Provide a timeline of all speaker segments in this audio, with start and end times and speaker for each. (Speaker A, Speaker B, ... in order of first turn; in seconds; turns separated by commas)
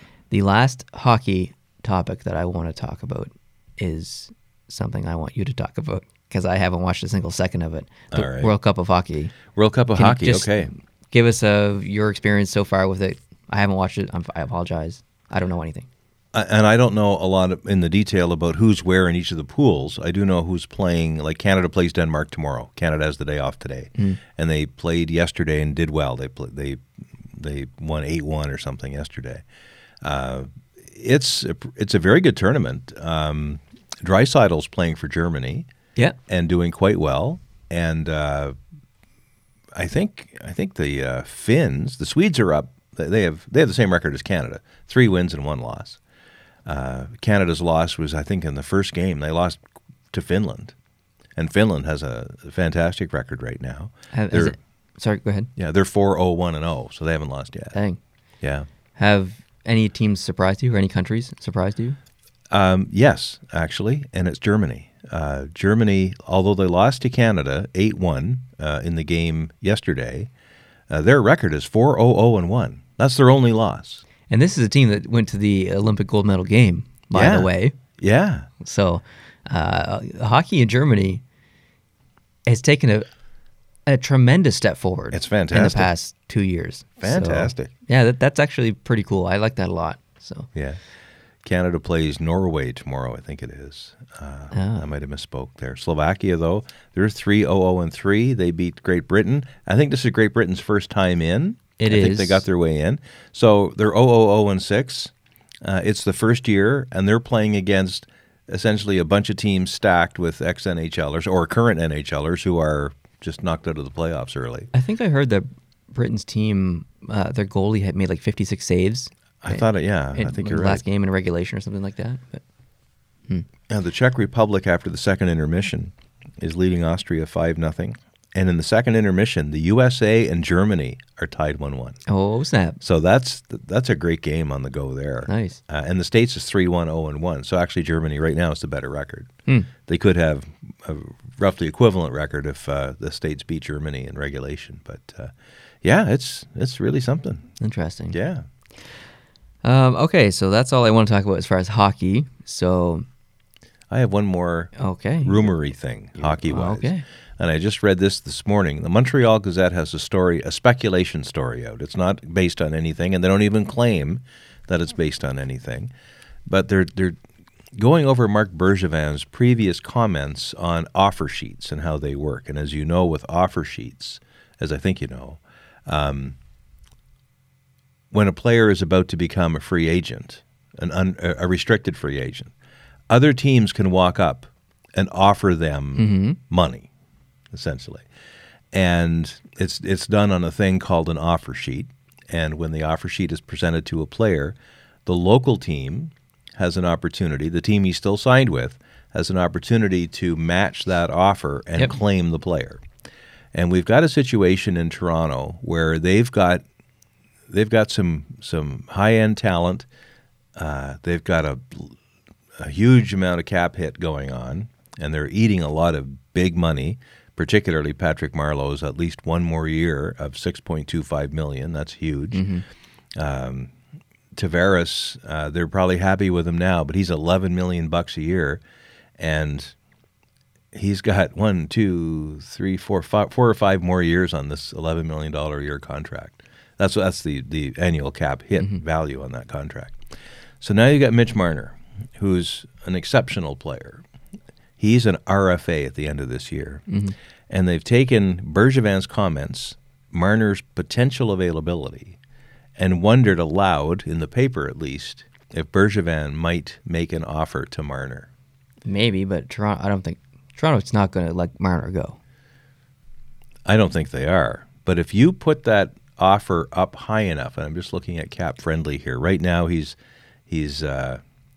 Speaker A: 0.3-9.4, Speaker B: 8.1-8.5, Speaker B: 9.5-10.7, Speaker A: 9.9-15.9, Speaker B: 16.3-29.4, Speaker B: 30.0-35.7, Speaker B: 36.3-38.5, Speaker B: 39.7-46.0, Speaker B: 46.7-50.7, Speaker B: 51.4-54.5, Speaker A: 54.1-55.5, Speaker B: 55.6-57.8, Speaker A: 57.7-58.0, Speaker B: 58.4-58.7, Speaker A: 59.0-62.0, Speaker B: 62.5-70.3, Speaker B: 70.9-74.0, Speaker A: 74.3-77.8, Speaker B: 77.1-78.5, Speaker A: 78.6-81.2, Speaker A: 82.5-83.1, Speaker A: 83.9-90.5, Speaker B: 85.1-85.9, Speaker B: 87.0-87.7, Speaker B: 91.4-105.1, Speaker A: 94.5-94.9, Speaker A: 101.8-102.5, Speaker B: 105.6-114.7, Speaker A: 114.7-122.4, Speaker B: 119.4-120.8, Speaker B: 123.7-132.0, Speaker A: 132.1-132.8, Speaker B: 132.8-139.3, Speaker A: 135.3-135.6, Speaker B: 139.8-147.5, Speaker A: 147.6-148.2, Speaker B: 148.1-148.5, Speaker A: 149.6-153.1, Speaker B: 153.9-154.7, Speaker A: 154.8-155.4, Speaker B: 155.2-165.9, Speaker A: 156.2-157.0, Speaker B: 166.5-167.2, Speaker B: 167.8-176.4, Speaker B: 178.1-182.5, Speaker B: 183.1-186.9, Speaker A: 186.0-186.4, Speaker B: 187.5-188.1, Speaker B: 188.7-202.8, Speaker B: 203.5-206.6, Speaker B: 207.5-209.9, Speaker B: 210.6-212.0, Speaker B: 212.6-222.4, Speaker A: 222.3-222.6, Speaker B: 223.2-223.7, Speaker B: 224.3-228.6, Speaker B: 229.2-229.8, Speaker B: 230.7-240.0, Speaker B: 240.6-244.0, Speaker B: 244.8-246.8, Speaker A: 246.9-247.2, Speaker B: 247.5-252.2, Speaker B: 252.8-258.3, Speaker A: 258.9-262.2, Speaker B: 263.7-270.0, Speaker B: 270.5-271.2